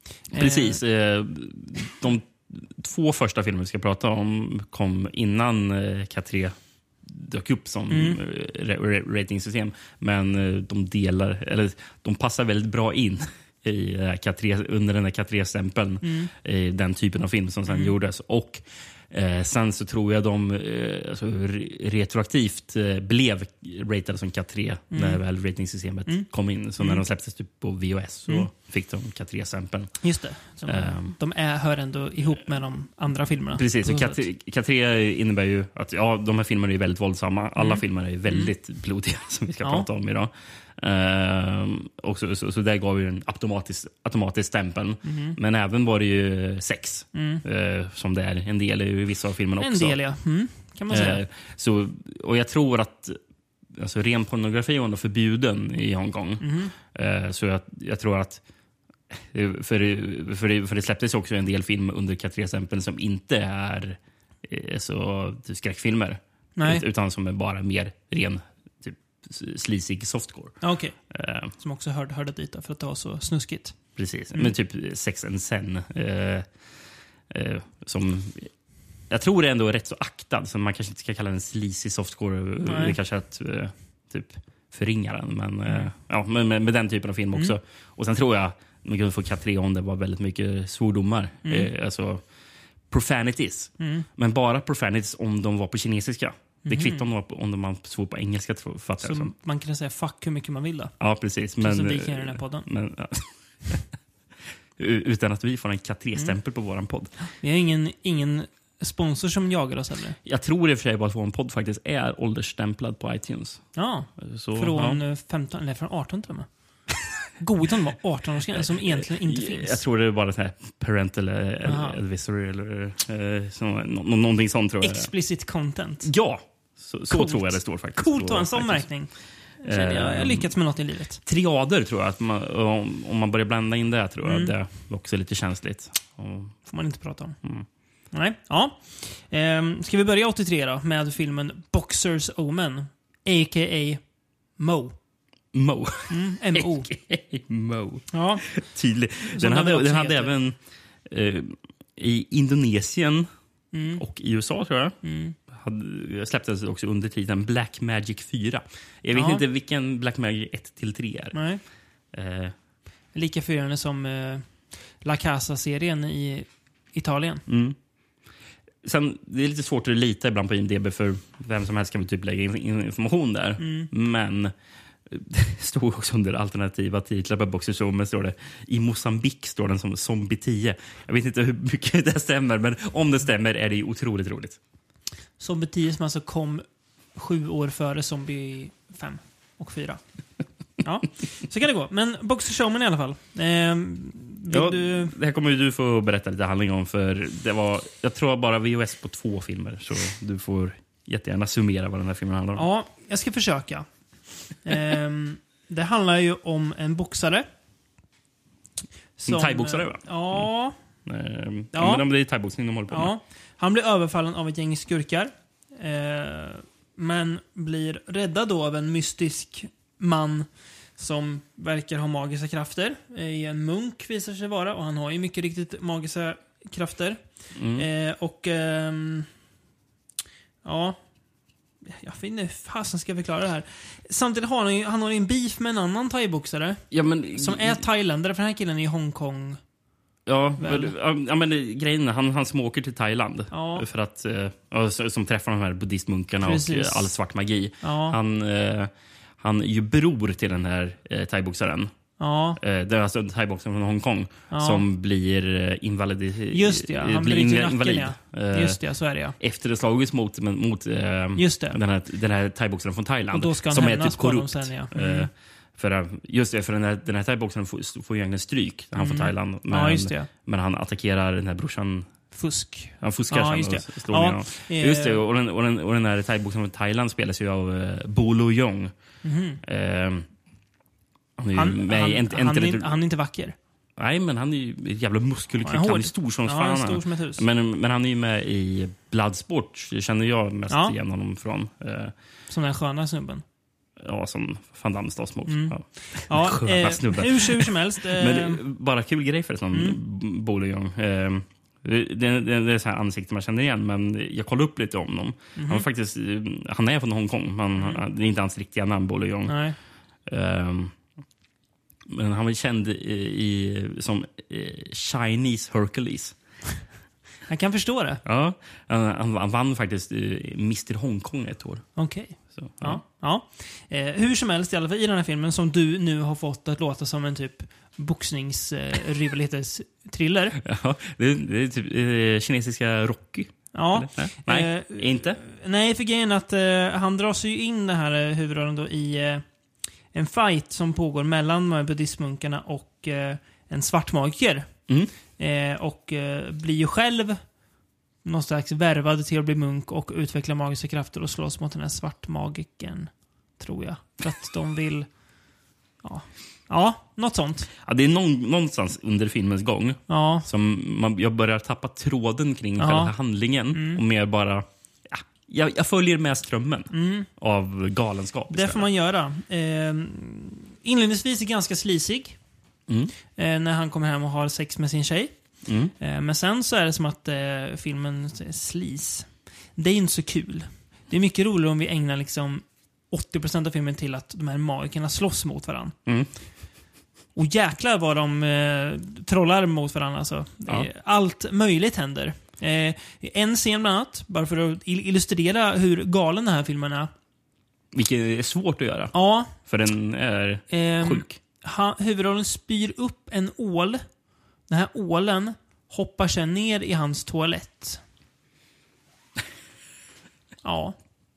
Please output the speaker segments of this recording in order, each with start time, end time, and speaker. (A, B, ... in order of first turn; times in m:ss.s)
0:00.3-0:00.8 A
0:00.3-0:30.0 B
0:07.9-0:08.2 A
0:16.0-0:16.3 A
0:24.9-0:25.2 A
0:30.0-0:34.2 A
0:30.6-0:31.2 B
0:33.6-0:50.0 B
0:37.6-0:38.5 A
0:39.6-0:39.9 A
0:45.0-0:45.4 A
0:47.1-0:47.4 A
0:49.6-0:51.2 A
0:50.9-0:53.2 B
0:53.7-0:58.4 B
0:56.4-0:56.7 A
0:59.1-1:10.6 B
1:06.6-1:06.8 A
1:10.6-1:11.0 A
1:11.1-1:11.5 B
1:11.6-1:13.8 A
1:14.0-1:16.5 B
1:17.3-1:18.5 B
1:19.1-1:32.2 B
1:22.6-1:23.0 A
1:32.9-1:39.3 B
1:33.8-1:34.1 A
1:36.6-1:37.1 A
1:39.0-1:40.9 A
1:41.0-1:43.8 B
1:41.6-1:42.7 A
1:44.8-1:47.1 B
1:47.4-1:50.2 A
1:50.2-1:53.7 B
1:53.8-1:56.5 A
1:54.2-1:55.0 B
1:57.4-1:59.8 A
1:58.5-2:05.1 B
2:01.6-2:02.0 A
2:04.8-2:06.1 A
2:06.0-2:08.9 B
2:07.1-2:11.2 A
2:09.6-2:10.5 B
2:11.2-2:16.6 B
2:14.2-2:14.5 A
2:16.7-2:17.4 A
2:18.1-2:24.0 A
2:24.6-2:25.0 A
2:25.5-2:33.3 B
2:26.1-2:26.9 A
2:28.1-2:28.4 A
2:29.3-2:30.3 A
2:33.7-2:34.0 A
2:34.0-2:35.0 B
2:35.0-2:35.4 A
2:35.5-2:41.4 B
2:39.1-2:39.4 A
2:41.3-2:41.6 A
2:42.1-2:42.6 B
2:43.1-2:44.5 A
2:45.0-2:47.4 A
2:47.5-2:47.8 B
2:48.8-2:54.5 B
2:53.6-2:53.9 A
2:55.1-3:04.6 B
3:05.4-3:10.0 A
3:10.8-3:15.2 A
3:14.5-3:22.6 B
3:22.6-3:23.9 A
3:24.6-3:27.5 A
3:29.2-3:30.8 A
3:29.3-3:30.5 B
3:31.1-3:33.1 B
3:31.7-3:32.0 A
3:32.9-3:47.2 A
3:47.6-3:47.9 B
3:47.7-3:49.3 A
3:50.6-3:51.0 A
3:51.8-3:59.6 A
3:56.9-3:57.8 B
4:00.3-4:11.9 B
4:00.6-4:00.9 A
4:03.5-4:03.9 A
4:06.4-4:07.2 A
4:07.8-4:08.2 A
4:12.2-4:12.6 A
4:12.6-4:18.8 B
4:14.5-4:14.8 A
4:16.5-4:19.4 A
4:19.4-4:32.1 B
4:21.4-4:21.8 A
4:23.3-4:25.3 A
4:29.0-4:30.3 A
4:32.3-4:35.2 A
4:33.0-4:38.9 B
4:39.2-4:39.6 A
4:39.6-4:40.3 B
4:41.4-4:42.9 B
4:41.6-4:43.6 A
4:44.0-4:52.1 B
4:45.6-4:47.4 A
4:50.7-4:51.0 A
4:52.5-4:53.4 A
4:54.0-5:09.6 B
4:55.5-4:58.6 A
4:59.7-5:00.0 A
5:05.6-5:05.9 A
5:09.5-5:09.8 A
5:10.3-5:10.9 B
5:12.1-5:16.4 B
5:17.5-5:18.2 A
5:18.2-5:21.9 B
5:22.0-5:30.6 A
5:22.5-5:23.0 B
5:30.6-5:35.4 B
5:33.7-5:39.4 A
5:40.1-5:44.7 A
5:45.4-5:47.4 A
5:48.2-5:55.1 A
5:56.0-5:57.7 A
5:57.8-6:08.9 B
6:00.1-6:00.5 A
6:02.8-6:03.1 A
6:03.7-6:04.0 A
6:06.9-6:07.3 A
6:08.5-6:12.4 A
6:12.9-6:13.1 B
6:13.3-6:15.3 A
6:15.7-6:15.9 B
6:16.0-6:26.0 A
6:27.4-6:37.1 A
6:37.9-6:41.4 B
6:39.1-6:39.5 A
6:40.7-6:44.0 A
6:44.7-6:48.0 A
6:50.6-6:51.0 A